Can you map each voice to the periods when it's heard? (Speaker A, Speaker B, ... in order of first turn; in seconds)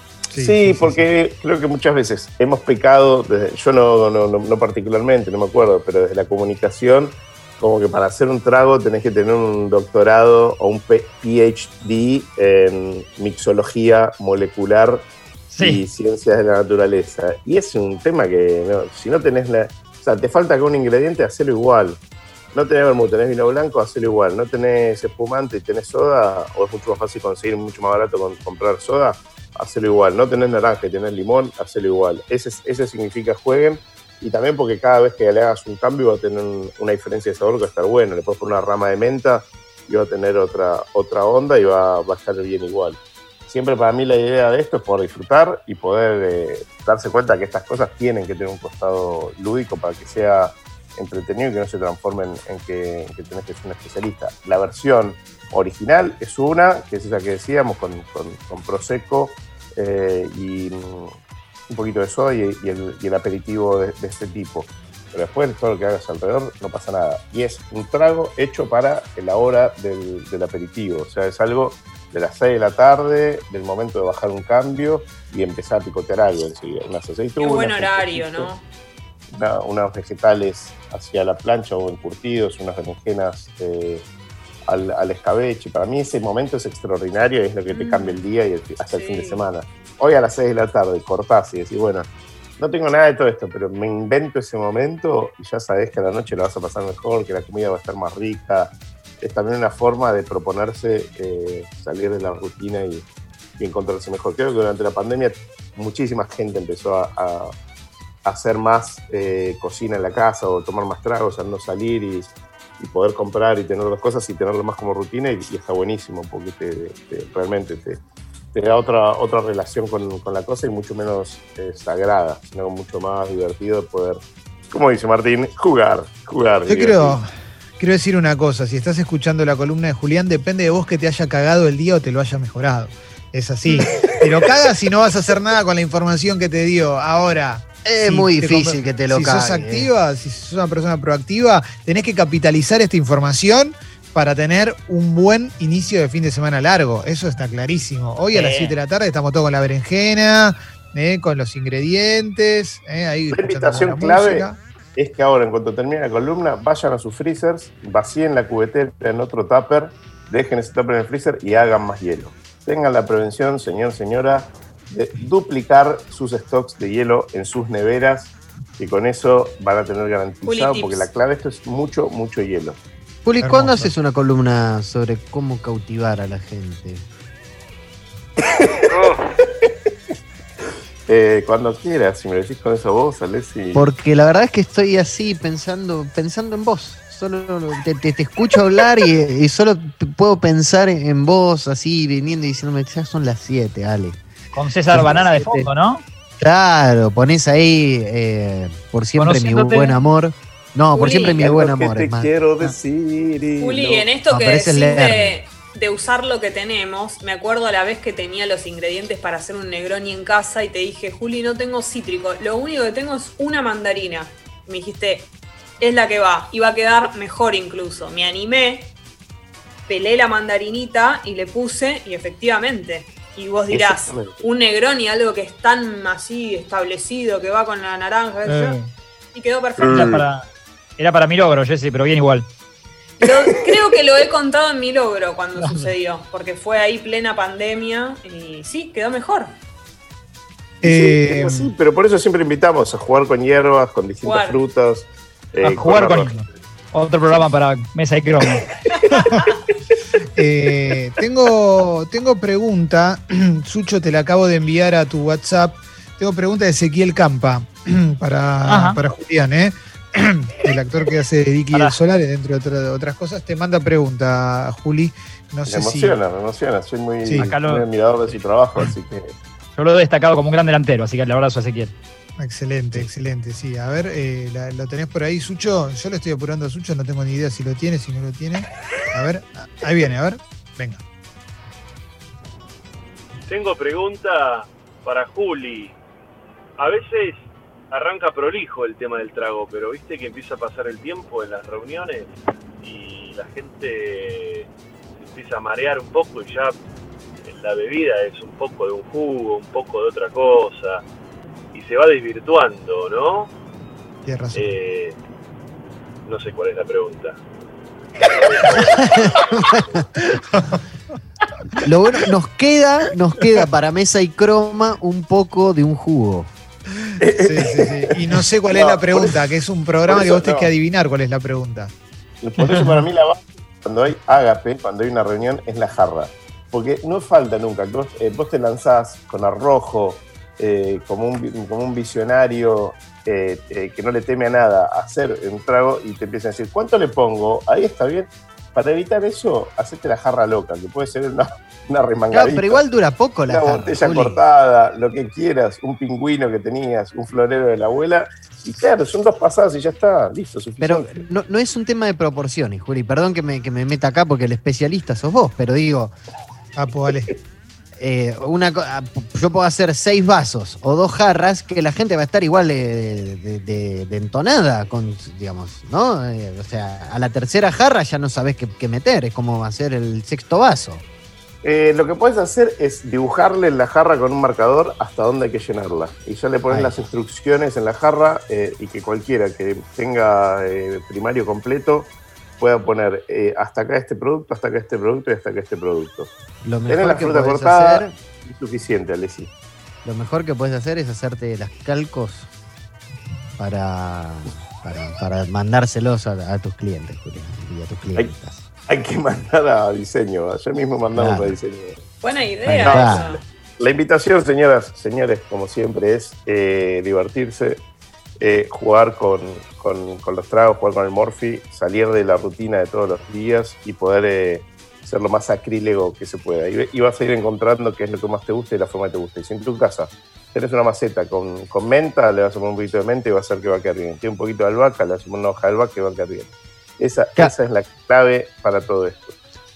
Speaker A: 0.3-1.1, 126.7-154.6, 173.4-173.9, 240.8-241.7, 249.2-249.4, 250.4-266.2, 267.2-267.5, 272.4-281.0, 304.2-304.8, 310.5-310.8, 317.4-321.9, 356.8-357.3
Speaker B: 0.3-15.1, 15.6-22.0, 22.5-61.1, 61.7-78.5, 79.3-84.0, 84.7-103.1, 103.6-107.5, 108.2-118.0, 118.5-127.2, 133.8-134.2, 153.3-172.8, 178.4-179.7, 181.1-183.9, 201.4-204.1, 223.7-224.4, 229.8-230.2, 233.3-233.9, 240.8-246.4, 249.0-249.3, 265.7-269.4, 317.2-319.4, 320.1-320.7, 322.4-342.8, 343.5-351.2, 371.6-386.3, 386.9-389.5, 398.9-402.0, 402.8-407.8, 408.4-429.4
Speaker C: 15.5-15.8, 148.3-148.8, 194.5-196.0, 199.2-200.0, 228.5-228.9, 229.8-230.5, 231.0-232.5, 235.6-235.9, 245.6-248.7, 258.7-259.0, 267.4-267.9, 269.8-271.9, 322.7-322.9
Speaker D: 77.4-78.6, 87.7-88.2, 88.9-89.4, 170.4-171.1, 200.9-201.4, 203.6-218.9, 219.9-228.8, 229.3-230.1, 233.2-239.6, 244.2-244.6, 402.2-403.4
Speaker E: 137.8-139.9, 173.2-177.1, 183.7-194.2, 194.9-195.7, 196.4-202.3, 204.3-205.4, 309.0-309.8, 311.8-316.5, 342.3-344.4, 350.8-356.1, 358.0-371.0, 376.7-377.1, 386.6-388.1, 390.1-392.5, 393.6-398.6, 401.1-401.6, 402.6-403.2
Speaker F: 283.5-286.0, 286.8-296.8, 297.4-301.1, 301.7-303.5, 304.5-305.2, 306.2-307.4, 308.4-310.0